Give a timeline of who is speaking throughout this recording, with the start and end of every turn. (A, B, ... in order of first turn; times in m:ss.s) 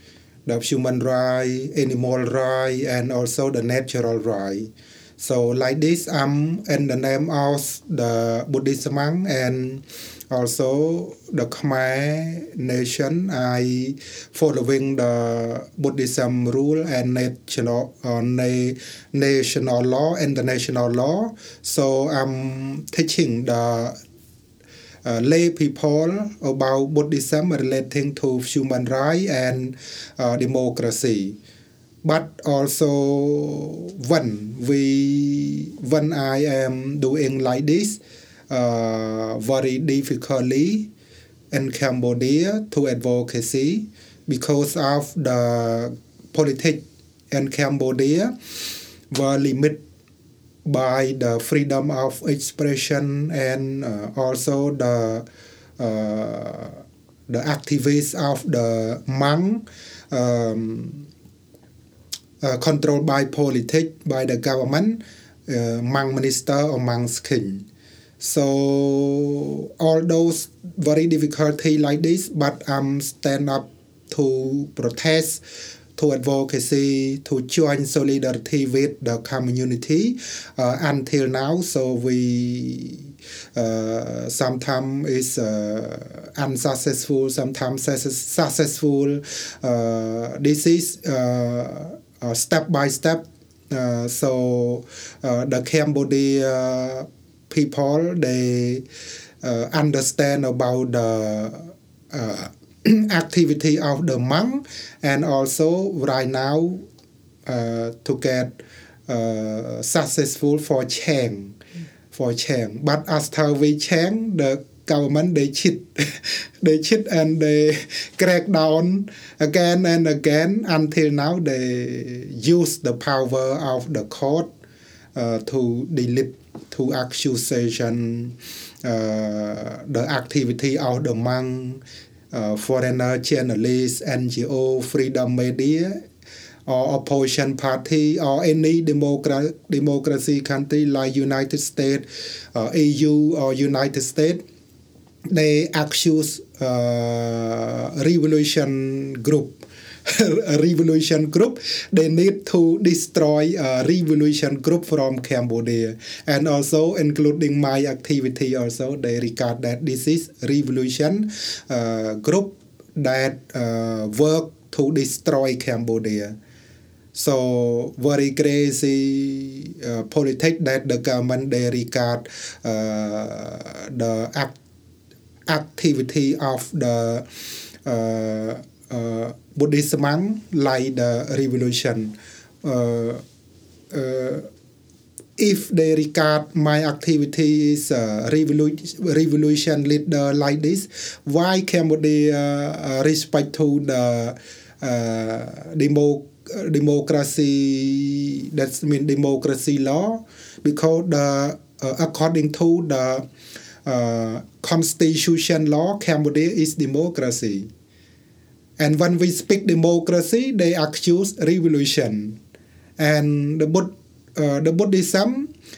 0:00.5-0:24.0 A
0:25.0-0:31.4 A
0:32.0-0:40.9 A
0:41.5-0:48.4 A
0:49.1-0:49.8 A
0:50.6-0:55.2 A
0:55.8-1:01.1 A
1:02.4-1:07.6 A
1:08.2-1:15.4 A
1:16.0-1:38.8 A
1:39.4-1:46.8 A
1:47.5-1:51.6 A
1:52.1-2:04.5 A
2:05.2-2:16.0 A
2:16.7-2:24.4 A
2:25.3-2:46.4 A
2:47.2-2:54.6 A
2:55.5-2:57.3 A
2:57.8-3:03.2 A
3:03.9-3:04.5 A
3:05.4-3:23.3 A
3:23.8-3:27.7 A
3:28.8-3:32.4 A
3:33.0-3:35.5 A